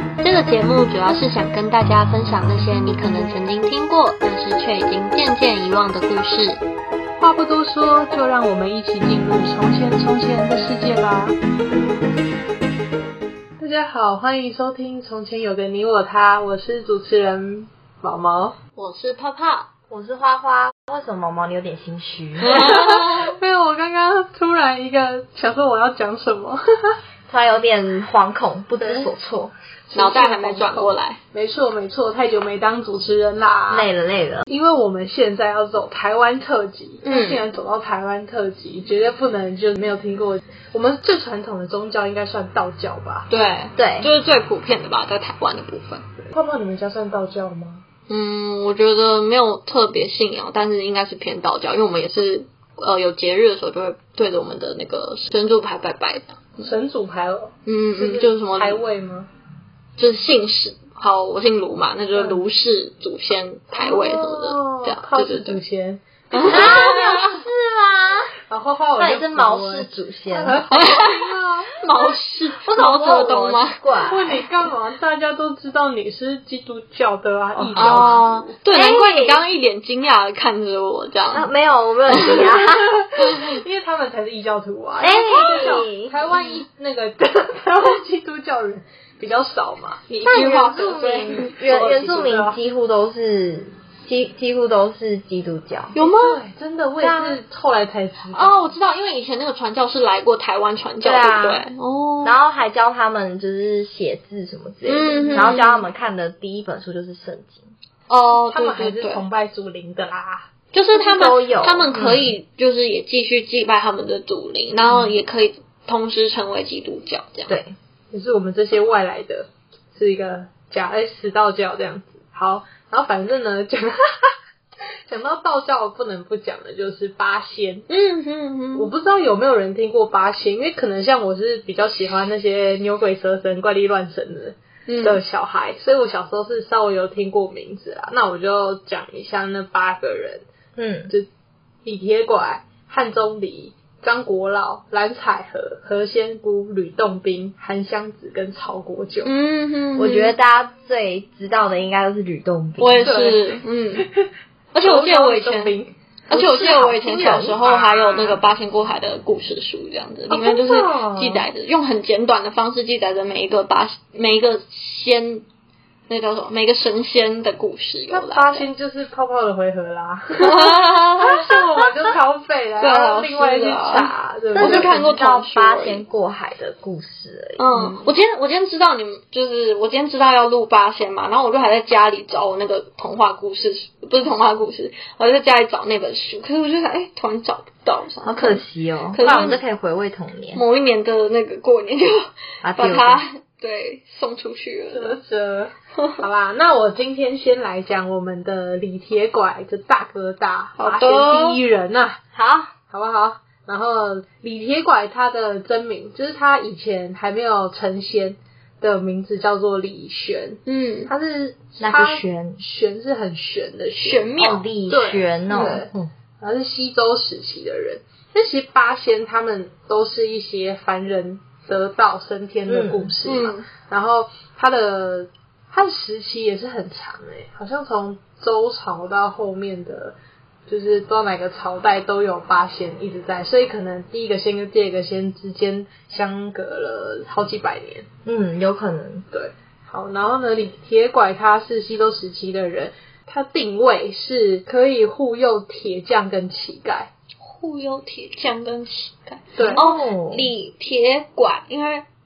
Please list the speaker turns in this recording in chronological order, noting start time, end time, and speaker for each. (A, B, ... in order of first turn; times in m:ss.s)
0:00.2-0:06.6 A
0:07.2-0:11.4 B
0:13.6-0:18.6 B
0:18.8-0:19.7 A
0:19.9-0:22.8 C
0:22.4-0:23.3 A
0:22.4-0:26.9 B
0:27.3-0:29.5 C
0:28.8-0:29.1 B
0:29.9-0:33.9 B
0:29.9-0:31.2 A
0:33.7-0:34.5 C
0:34.5-0:43.3 B
0:37.0-0:37.5 A
0:43.3-0:46.0 A
0:43.8-0:44.1 C
0:46.2-0:47.8 B
0:48.1-0:56.7 A
0:56.6-0:59.3 B
0:57.7-0:58.8 A
1:00.0-1:05.6 A
1:02.1-1:02.4 B
1:03.7-1:06.7 B
1:06.3-1:07.4 A
1:06.4-1:08.3 C
1:08.5-1:12.2 B
1:09.0-1:10.7 C
1:10.7-1:13.8 A
1:12.7-1:14.4 C
1:14.0-1:18.6 B
1:17.6-1:18.1 C
1:17.7-1:21.5 A
1:18.7-1:19.4 C
1:21.3-1:23.0 C
1:22.1-1:22.5 A
1:22.1-1:32.6 B
1:25.0-1:26.1 C
1:30.2-1:30.6 A
1:30.2-1:36.0 C
1:35.9-1:36.4 A
1:36.0-1:38.7 B
1:37.0-1:37.4 C
1:38.3-1:42.4 A
1:41.0-1:41.6 C
1:42.2-1:47.7 C
1:44.8-1:45.9 A
1:45.3-1:45.6 B
1:48.1-1:49.2 A
1:48.3-1:50.5 B
1:50.7-1:57.6 A
1:50.9-1:52.3 C
1:57.5-1:57.7 C
1:58.1-2:04.3 B
2:05.1-2:07.8 B
2:07.9-2:08.9 A
2:08.8-2:20.5 B
2:14.9-2:15.2 A
2:20.8-2:21.1 C
2:21.8-2:29.3 B
2:29.2-2:30.4 A
2:30.0-2:33.2 C
2:32.8-2:34.1 A
2:33.0-2:34.3 B
2:34.7-2:35.7 A
2:34.8-2:35.9 B
2:36.3-2:37.6 C
2:36.3-2:45.4 A
2:37.6-2:38.4 B
2:40.3-2:41.5 B
2:46.1-2:48.7 A
2:48.1-2:55.0 B
2:50.4-2:51.9 A
2:52.8-2:56.0 A
2:54.5-2:58.0 C
2:57.6-3:09.6 A
3:08.2-3:10.6 C
3:10.5-3:15.2 A
3:12.6-3:13.2 C
3:14.9-3:22.2 B
3:20.8-3:21.6 A
3:22.3-3:22.7 C
3:22.9-3:34.3 B
3:30.7-3:31.1 A
3:31.8-3:32.6 C
3:34.0-3:34.7 A
3:34.4-3:36.0 C
3:34.9-3:58.1 B
3:35.5-3:35.8 A
3:42.7-3:43.1 C
3:43.2-3:43.7 A
3:58.2-3:59.2 C
3:59.3-4:07.1 B
4:07.4-4:12.0 A
4:09.5-4:09.9 B
4:09.6-4:10.5 C